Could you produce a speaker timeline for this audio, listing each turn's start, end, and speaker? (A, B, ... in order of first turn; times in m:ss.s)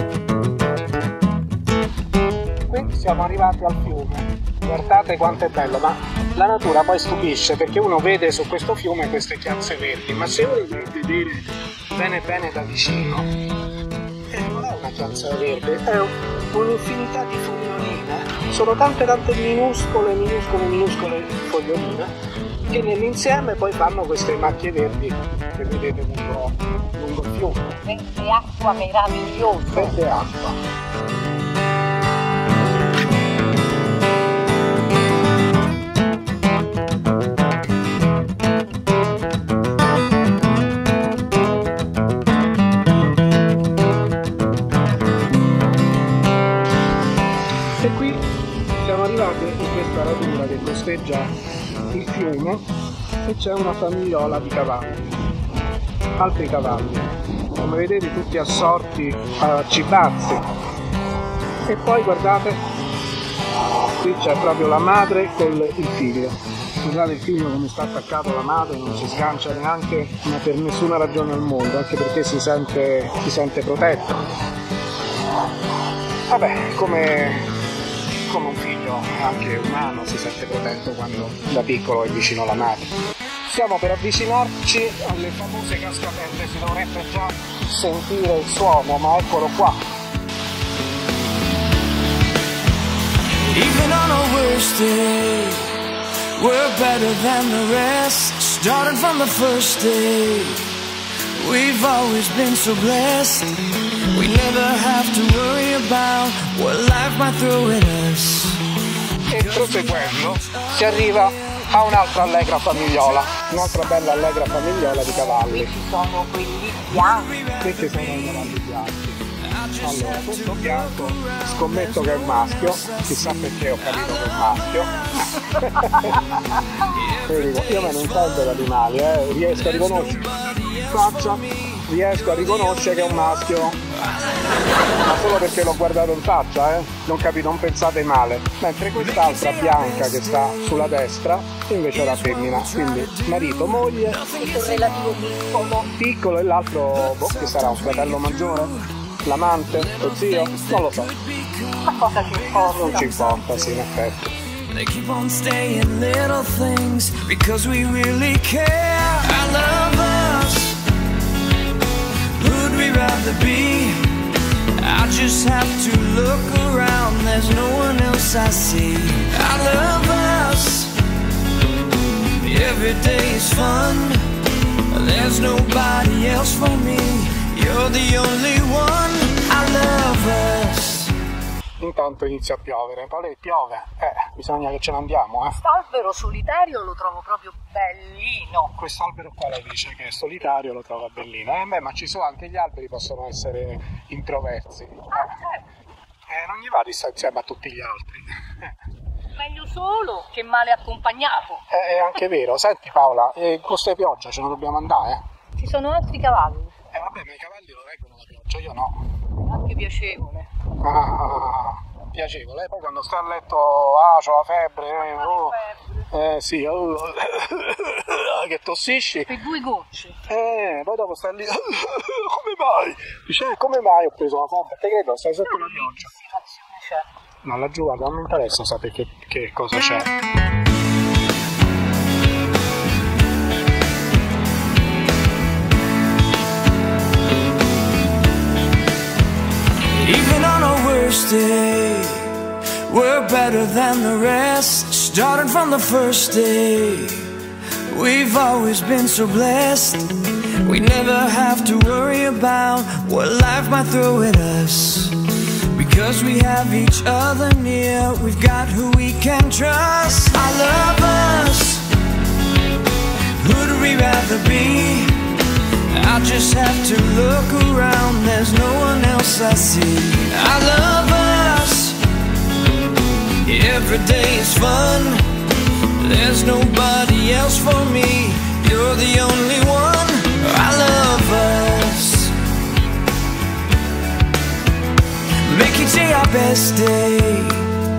0:02.7-0:13.3 A
0:14.3-0:22.1 A
0:22.7-0:27.8 A
0:27.8-0:30.0 B
0:29.7-0:30.6 A
0:47.8-0:48.2 A
0:48.8-0:51.3 A
0:51.9-0:52.6 A
0:53.2-0:55.0 A
0:56.2-1:00.4 A
1:01.6-1:02.6 A
1:03.9-1:14.3 A
1:16.3-1:17.5 A
1:18.2-1:22.9 A
1:23.4-1:29.8 A
1:33.5-1:40.8 C
1:41.4-1:48.7 C
1:49.3-1:55.7 A
1:49.5-1:50.6 C
1:52.9-1:53.8 C
1:55.0-1:57.4 B
1:56.9-1:58.5 C
1:57.6-1:59.2 A
1:59.4-2:05.6 C
1:59.8-2:13.9 A
2:06.8-2:08.5 C
2:09.6-2:13.4 C
2:14.2-2:15.0 C
2:15.0-2:24.2 A
2:19.0-2:20.7 C
2:21.9-2:25.8 C
2:24.3-2:25.9 B
2:25.9-2:31.1 A
2:26.9-2:28.8 C
2:29.7-2:33.5 C
2:31.8-2:33.8 B
2:32.7-2:34.3 A
2:34.7-2:40.8 C
2:42.3-2:51.0 C
2:52.4-2:54.4 C
2:54.9-3:01.2 C
3:01.8-3:05.6 A
3:05.6-3:08.7 B
3:08.7-3:15.4 A
3:15.1-3:15.6 B
3:16.3-3:18.6 A
3:19.4-3:21.6 B
3:21.7-3:25.2 A
3:25.6-3:26.7 B
3:26.9-3:29.0 A
3:29.4-3:30.5 B
3:30.8-3:39.3 A
3:35.0-3:35.8 B
3:39.3-3:40.2 B
3:40.2-3:46.2 A
3:45.5-3:47.0 B
3:47.4-3:50.1 A
4:00.0-4:21.9 C
4:23.4-4:25.3 C
4:25.9-4:32.0 C
4:33.4-4:42.4 C
4:45.4-4:47.8 C